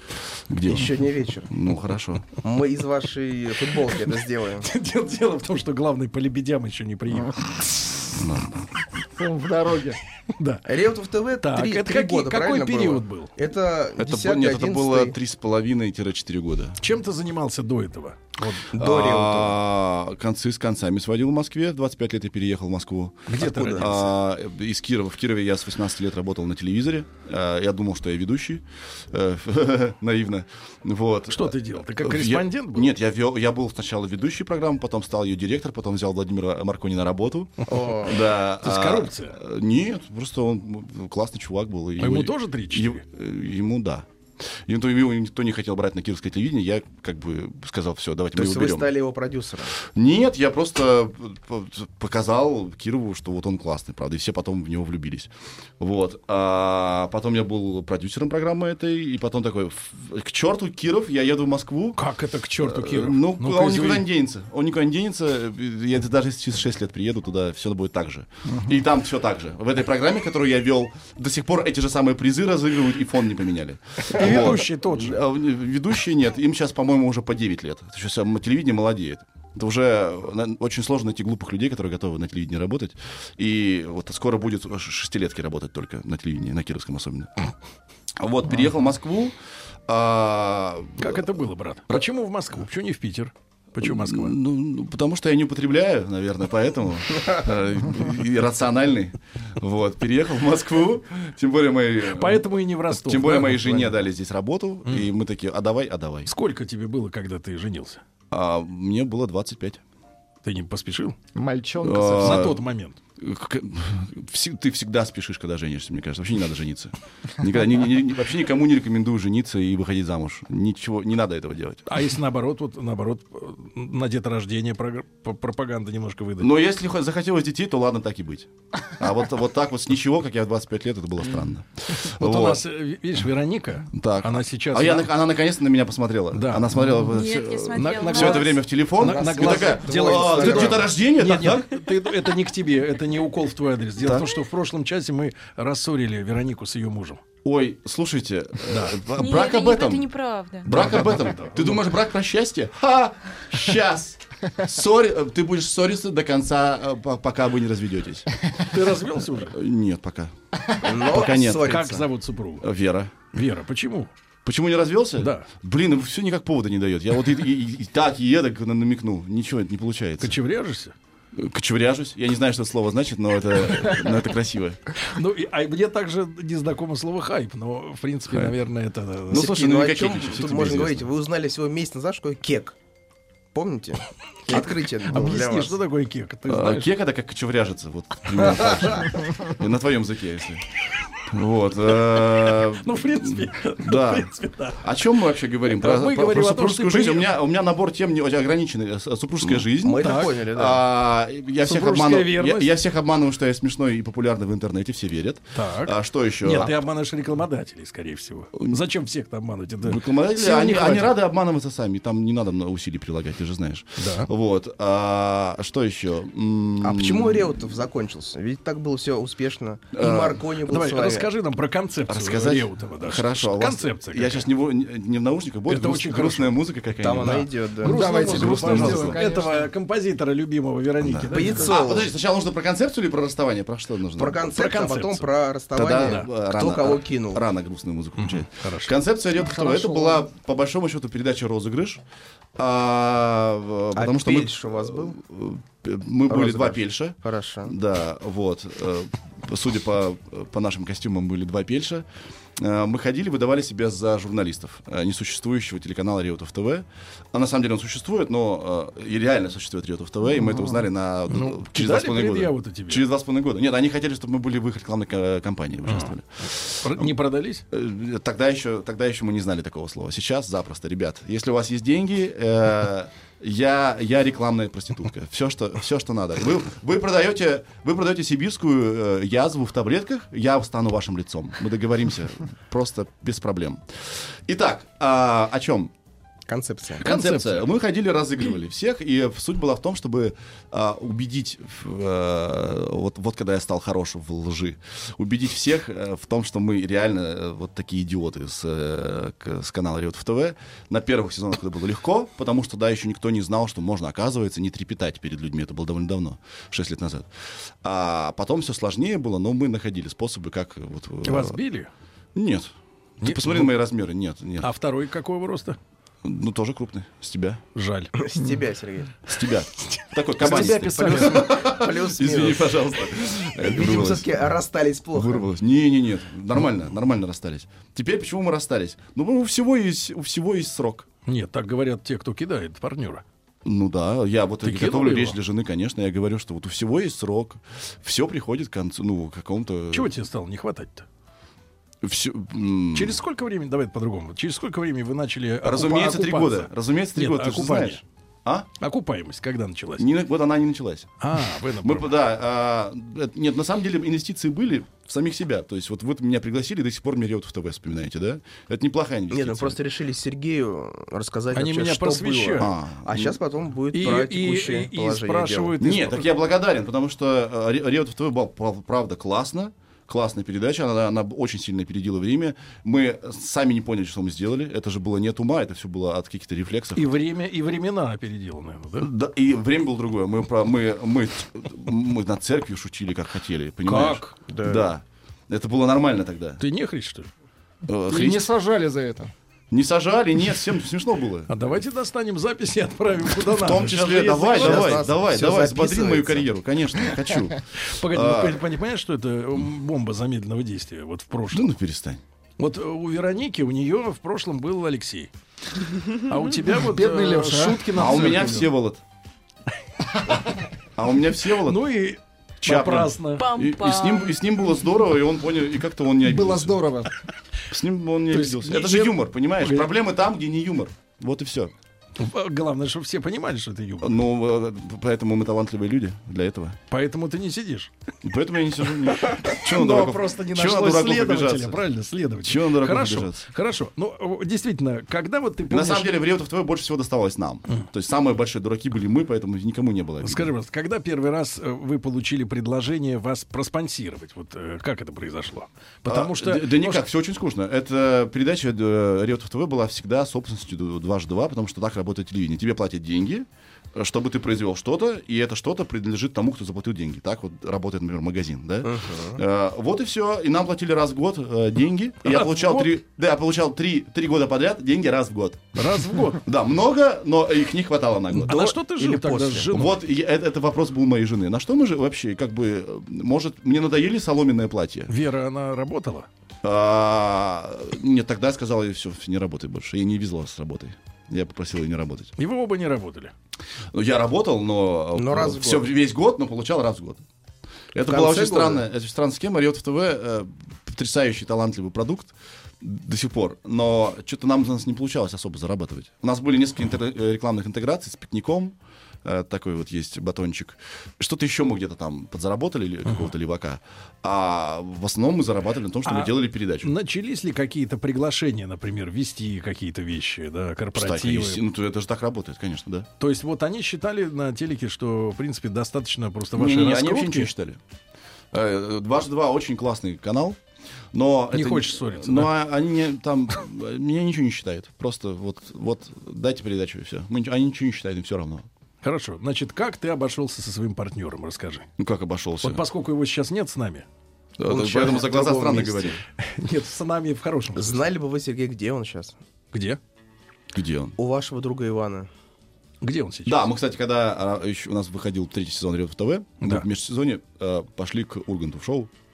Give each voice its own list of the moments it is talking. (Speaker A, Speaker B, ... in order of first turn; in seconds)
Speaker A: 0.5-2.3, 8.1-8.7, 13.9-16.8, 18.7-44.1, 44.6-48.9, 49.8-62.0, 62.6-87.3, 88.2-89.3, 89.9-91.3, 93.8-106.3, 108.3-109.8, 111.8-112.6, 113.2-121.9, 126.4-132.6, 133.9-141.9, 144.0-144.3, 147.4-150.1, 150.6-158.4, 159.3-160.3, 160.9-162.0, 162.6-163.1, 164.4-170.4, 171.3-174.8, 179.3-181.1, 186.5-206.7, 209.8-217.6, 219.9-220.4, 222.1-227.5, 228.3-229.2, 231.0-234.4, 235.7-242.0, 242.6-252.0, 252.6-267.1, 267.7-285.9, 287.0-307.3, 307.8-311.6, 312.3-314.7, 316.2-317.6, 319.2-324.5, 325.1-331.1, 333.6-340.1, 342.0-343.2, 345.6-348.7, 350.0-351.2, 351.8-359.8, 362.6-363.4, 365.8-377.1, 379.0-386.6, 387.9-388.5, 389.7-391.5, 393.4-398.6, 401.5-402.2, 407.9-409.0, 410.9-411.8, 412.6-416.8, 417.7-421.7, 424.0-426.8, 428.2-431.8, 432.4-433.4, 435.7-440.5, 446.1-465.8, 466.4-475.1, 476.6-482.3, 483.9-487.2, 487.9-506.9, 510.9-513.1, 516.5-517.8, 518.5-520.6, 521.1-528.7, 532.0-532.8, 534.6-536.2, 540.7-541.1, 543.5-549.1
Speaker B: 0.7-1.5, 2.4-4.7, 10.6-15.1, 18.7-19.6, 23.4-23.9, 37.7-38.2, 48.3-49.7, 139.4-140.8, 160.8-162.0, 179.3-182.8, 183.5-185.7, 199.5-200.8, 216.8-221.3, 227.0-228.2, 231.3-232.1, 234.2-237.4, 243.9-245.2, 246.3-247.7, 286.5-287.0, 318.2-319.1, 320.4-323.0, 323.6-325.5, 359.3-365.8, 384.5-384.9, 394.5-396.5, 458.8-459.4, 469.0-469.6, 485.1-485.9, 488.1-488.8, 534.7-536.2, 537.8-539.4, 541.2-542.3
Speaker C: 4.6-7.5, 10.4-10.7, 11.4-13.3, 16.8-18.7, 23.3-24.1, 31.3-32.9, 38.6-39.4, 42.0-43.0, 62.0-64.1, 74.1-75.2, 91.0-94.3, 102.0-104.0, 106.3-108.0, 110.4-111.2, 112.2-113.0, 121.9-126.5, 131.9-135.1, 136.3-136.7, 137.7-147.2, 148.7-149.0, 150.7-151.8, 158.6-159.6, 161.4-162.7, 163.3-164.1, 165.2-165.5, 170.2-170.9, 175.0-179.6, 184.5-186.9, 192.5-194.8, 195.7-197.3, 200.0-200.3, 201.6-202.7, 205.5-211.1, 214.0-214.3, 220.6-224.5, 225.7-226.6, 227.2-231.8, 234.4-235.3, 236.0-236.3, 238.2-238.9, 261.3-263.1, 265.9-267.6, 287.0-287.6, 311.2-311.9, 313.2-313.8, 314.6-315.8, 317.7-318.1, 319.9-321.5, 331.2-333.2, 334.6-335.4, 339.9-341.1, 342.9-348.0, 348.8-350.1, 351.2-352.1, 361.5-362.7, 363.9-366.3, 376.9-379.1, 383.9-384.4, 386.6-387.3, 391.5-395.1, 397.8-401.7, 402.6-408.7, 411.6-413.5, 418.3-419.9, 422.2-424.2, 426.9-427.9, 429.1-436.1, 440.2-447.1, 462.2-462.9, 465.7-466.4, 468.3-470.0, 475.1-476.3, 482.4-483.3, 506.0-511.6, 513.2-517.5, 521.5-522.5, 529.0-531.9, 532.6-534.0, 536.4-538.0, 539.7-540.0, 543.0-543.7, 546.6-546.9
Speaker D: 9.2-10.0, 111.3-112.5, 139.0-140.6, 227.8-229.7, 239.4-240.2, 388.1-389.3, 406.7-407.9, 416.2-417.1
Speaker E: 137.1-138.8, 149.1-150.8, 413.4-414.4